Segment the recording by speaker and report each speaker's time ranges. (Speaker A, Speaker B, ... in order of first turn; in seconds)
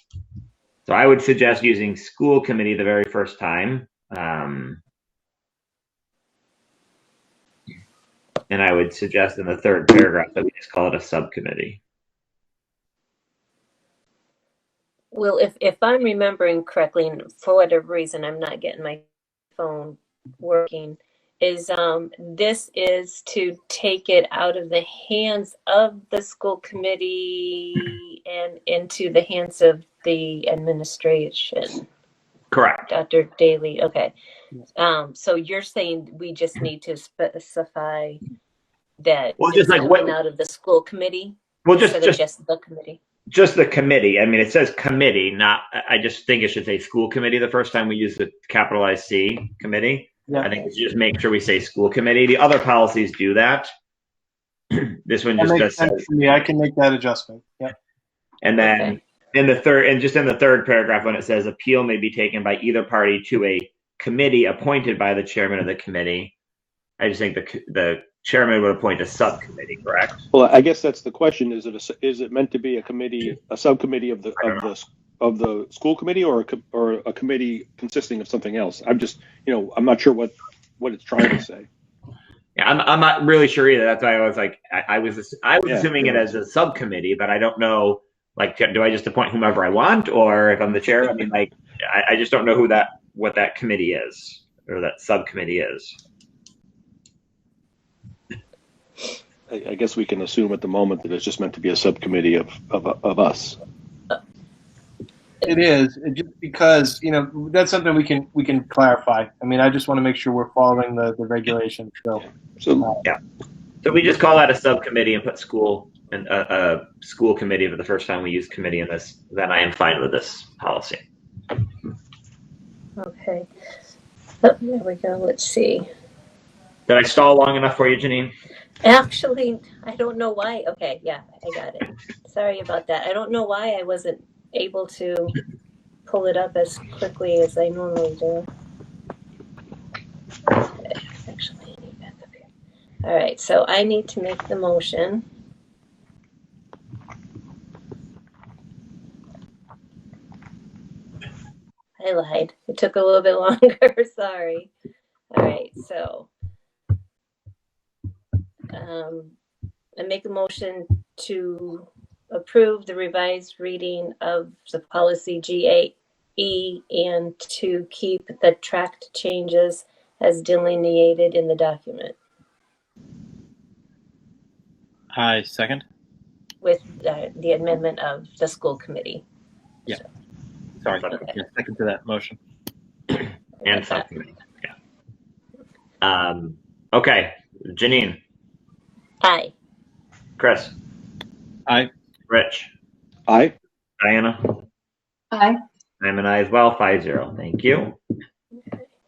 Speaker A: 0.9-4.8, 8.5-11.8, 32.5-32.9, 39.4-40.1, 41.6-42.2, 43.3-53.7, 54.7-56.4, 58.4-66.3, 67.0-70.2, 74.4-74.7, 82.6-96.0, 113.8-121.0, 126.9-128.3, 183.7-184.7, 186.0-188.2, 190.4-190.7, 192.3-192.7, 194.0-194.6, 196.0-198.0
Speaker B: 15.1-19.1, 19.6-31.9, 32.9-34.1, 34.8-38.2, 39.0-43.0, 58.6-58.9, 123.0-123.5, 124.4-125.9, 128.8-135.4, 136.1-138.5, 140.6-142.4, 143.0-145.2, 152.0-154.7, 155.3-156.3, 158.7-159.3, 160.0-172.2, 176.6-179.2, 183.6-184.1, 189.2-189.5
Speaker C: 55.4-57.8, 105.4-112.2
Speaker D: 70.3-81.7, 85.7-86.4, 99.5-103.6, 112.6-112.9, 193.3-193.6
Speaker E: 175.1-175.8, 180.8-182.4